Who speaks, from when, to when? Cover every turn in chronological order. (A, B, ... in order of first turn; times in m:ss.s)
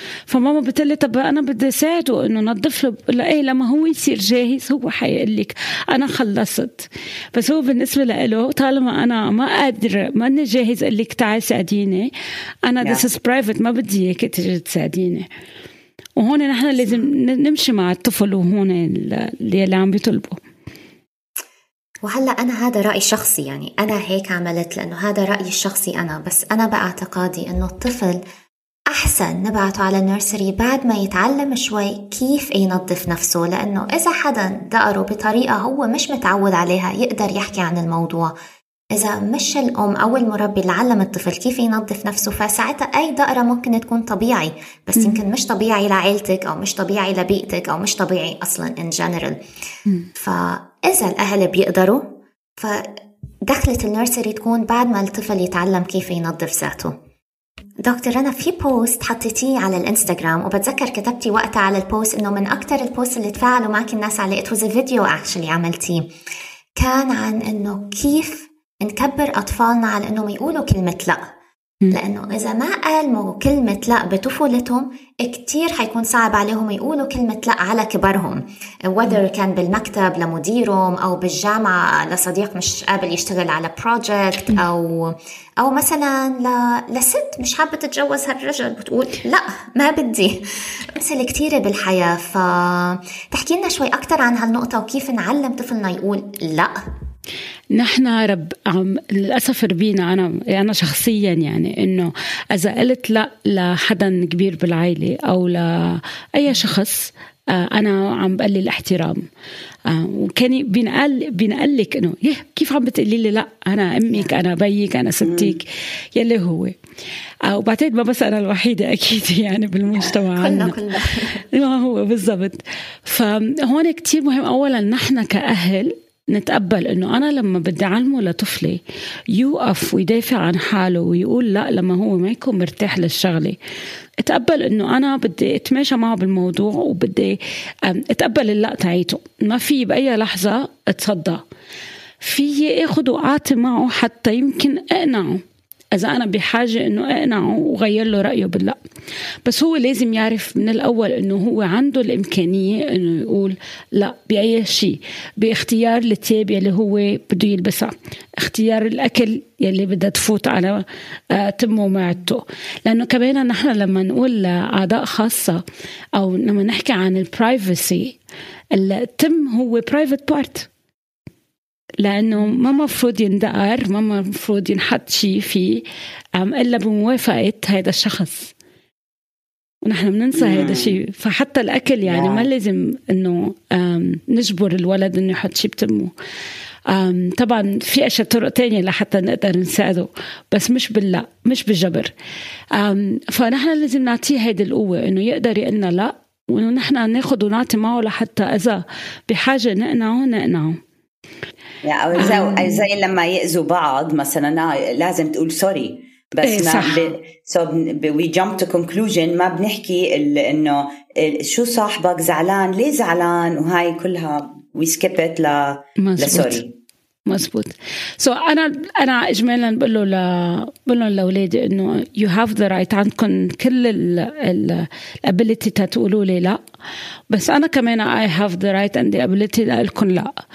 0:00.3-0:12.1 A
0:12.6-0:15.3 A
0:16.2-0:20.4 A
0:22.0-0:28.2 B
0:28.9-0:38.3 B
0:38.9-0:49.4 B
0:50.1-0:56.9 B
0:57.8-1:06.1 B
1:06.8-1:11.3 B
1:11.9-1:36.8 B
1:37.7-1:49.3 A
1:49.8-1:56.8 A
1:55.2-1:55.6 C
1:57.4-2:00.8 A
2:00.4-2:01.4 B
2:01.4-2:13.6 A
2:14.2-2:21.4 A
2:22.2-2:28.8 A
2:29.4-2:45.6 A
2:46.1-2:48.2 A
2:48.7-2:50.7 A
2:52.0-2:55.8 A
2:56.4-2:58.5 A
2:59.8-3:06.1 A
3:00.3-3:01.0 C
3:02.0-3:02.5 C
3:06.9-3:12.1 A
3:12.7-3:20.8 A
3:21.8-3:36.7 C
3:22.2-3:22.7 A
3:26.4-3:27.1 A
3:36.0-3:36.6 A
3:37.2-3:46.6 A
3:47.3-3:50.3 A